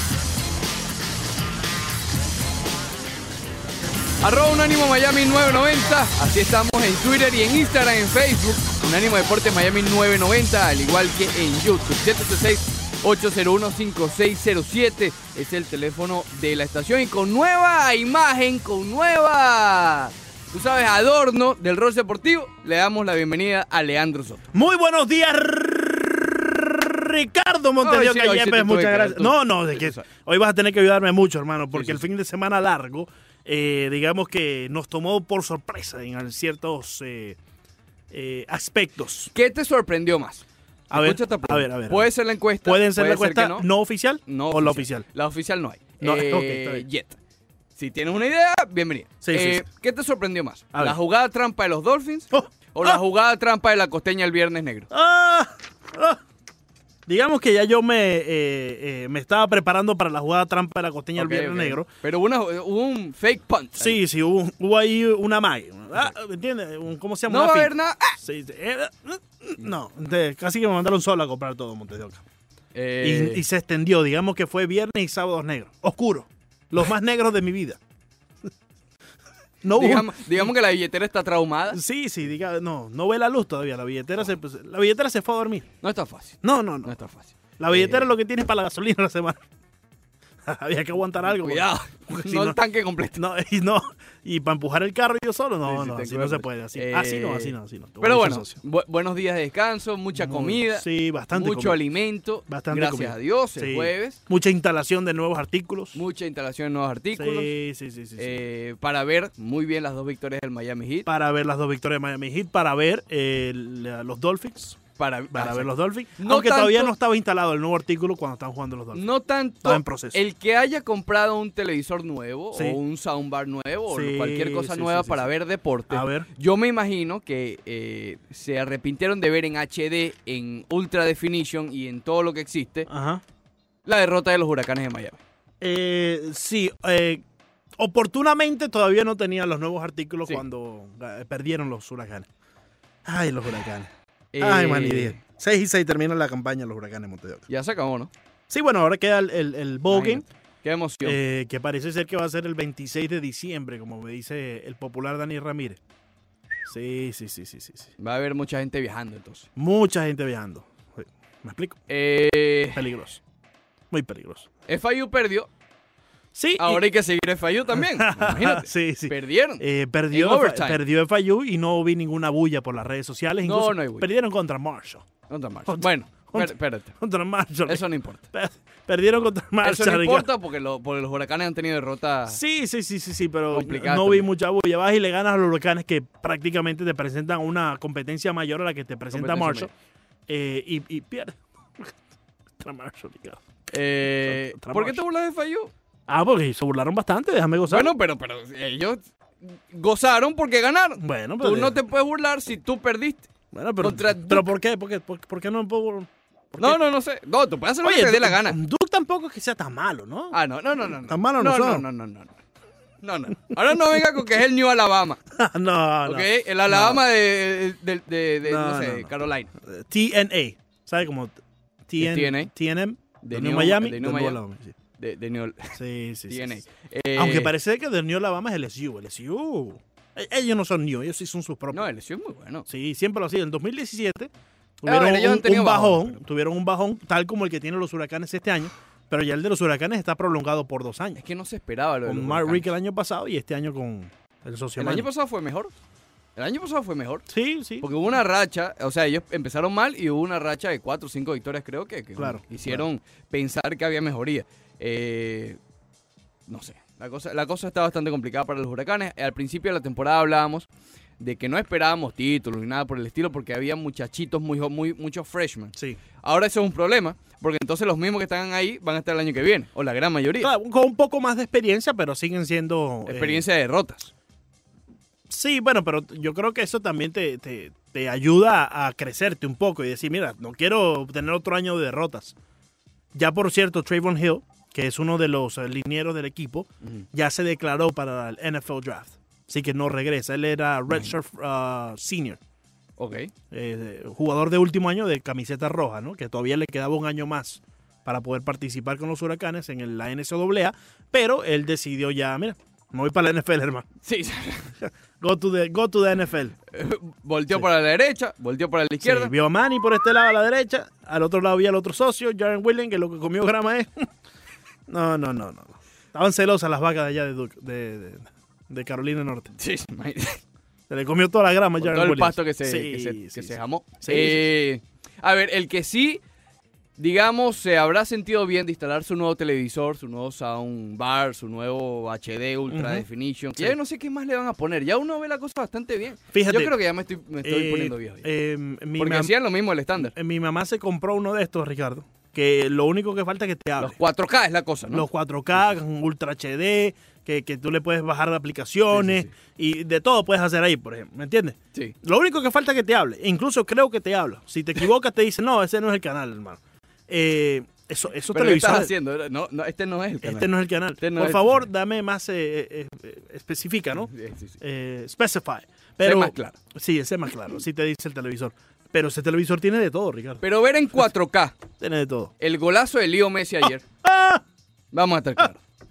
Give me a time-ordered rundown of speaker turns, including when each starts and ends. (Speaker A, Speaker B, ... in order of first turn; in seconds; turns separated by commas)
Speaker A: 4.2-24.5, Speaker B: 24.5-37.4, Speaker A: 27.8-30.1, Speaker A: 31.7-32.0, Speaker B: 38.1-39.3, Speaker A: 39.3-43.7, Speaker B: 40.9-42.1, Speaker B: 42.6-45.1, Speaker A: 44.3-47.2, Speaker B: 46.0-46.9, Speaker A: 47.8-54.9, Speaker B: 49.2-49.6, Speaker B: 52.3-53.0, Speaker B: 54.9-56.2, Speaker B: 57.1-61.9, Speaker A: 61.2-64.0, Speaker B: 63.8-72.2, Speaker A: 67.3-68.2, Speaker A: 72.8-73.4, Speaker B: 73.0-77.8, Speaker B: 79.6-80.5, Speaker A: 79.8-81.8, Speaker B: 81.7-85.7, Speaker A: 85.8-88.1, Speaker B: 86.4-86.9, Speaker B: 87.6-89.4, Speaker B: 90.5-92.6, Speaker A: 91.3-93.2, Speaker B: 93.2-98.6, Speaker A: 95.7-104.2, Speaker B: 100.1-101.8, Speaker B: 102.5-106.0, Speaker A: 106.0-107.5, Speaker B: 107.2-108.4, Speaker A: 108.2-111.1, Speaker B: 111.1-114.8, Speaker A: 115.0-116.9, Speaker B: 115.3-119.1, Speaker A: 118.9-132.9, Speaker B: 119.6-120.2, Speaker B: 122.5-122.8, Speaker B: 123.9-125.3, Speaker B: 125.9-126.3, Speaker B: 132.9-133.2, Speaker A: 133.9-135.2, Speaker B: 135.6-137.2, Speaker B: 137.8-142.3, Speaker B: 143.1-147.5, Speaker A: 144.3-145.2, Speaker A: 147.5-148.1, Speaker B: 148.5-150.2, Speaker A: 149.9-151.2, Speaker B: 151.0-155.8, Speaker B: 156.7-157.9, Speaker A: 158.0-159.5, Speaker B: 159.6-161.8, Speaker A: 161.9-162.9, Speaker B: 162.7-163.2, Speaker B: 163.9-164.5, Speaker A: 164.7-165.5, Speaker B: 166.3-166.8, Speaker A: 166.6-170.8, Speaker B: 167.7-175.1, Speaker A: 173.4-174.1, Speaker A: 175.3-176.9, Speaker B: 175.7-180.3, Speaker A: 177.7-178.2, Speaker A: 179.6-182.4, Speaker B: 182.3-189.7, Speaker A: 183.5-184.3, Speaker A: 189.1-189.7, Speaker B: 190.3-192.0, Speaker B: 192.6-193.4, Speaker A: 193.7-195.7, Speaker B: 194.2-195.0, Speaker B: 196.1-197.9, Speaker A: 197.7-204.5, Speaker B: 201.0-201.8, Speaker B: 203.5-206.8, Speaker A: 206.6-208.6, Speaker B: 207.8-210.4, Speaker A: 210.3-212.3, Speaker B: 210.9-211.9, Speaker A: 213.0-215.2, Speaker B: 215.3-217.0, Speaker A: 216.1-219.5, Speaker B: 218.4-219.1, Speaker B: 219.6-224.8, Speaker A: 222.0-222.5, Speaker A: 223.2-224.4, Speaker A: 225.0-225.8, Speaker B: 225.8-226.6, Speaker A: 226.3-227.5, Speaker B: 227.2-231.8, Speaker A: 231.7-232.7, Speaker B: 232.7-241.2, Speaker A: 234.8-236.2, Speaker A: 241.2-242.7, Speaker B: 242.1-245.1, Speaker A: 244.8-245.7, Speaker A: 246.4-247.2, Speaker B: 247.3-247.9, Speaker A: 247.8-255.6, Speaker B: 252.2-252.8, Speaker A: 256.5-260.7, Speaker A: 261.2-270.5, Speaker B: 270.4-273.4, Speaker A: 273.1-274.1, Speaker B: 275.3-282.4, Speaker B: 283.1-292.4, Speaker A: 293.0-293.3, Speaker B: 293.5-303.9, Speaker A: 304.0-304.7, Speaker B: 304.8-306.6, Speaker A: 306.7-309.3, Speaker B: 309.0-314.1, Speaker B: 314.9-319.5, Speaker A: 319.6-320.4, Speaker B: 320.9-324.4, Speaker A: 321.8-326.2, Speaker A: 327.0-338.2, Speaker B: 332.7-333.8, Speaker B: 336.3-336.7, Speaker B: 337.4-339.3, Speaker A: 339.0-340.1, Speaker B: 340.0-344.0, Speaker A: 343.8-345.1, Speaker B: 344.9-358.9, Speaker A: 348.9-349.3, Speaker A: 358.3-361.6, Speaker B: 360.2-370.4, Speaker A: 364.1-364.6, Speaker A: 366.0-366.6, Speaker A: 370.4-371.6, Speaker B: 371.8-372.3, Speaker A: 372.4-373.8, Speaker B: 374.0-374.4, Speaker A: 374.9-375.6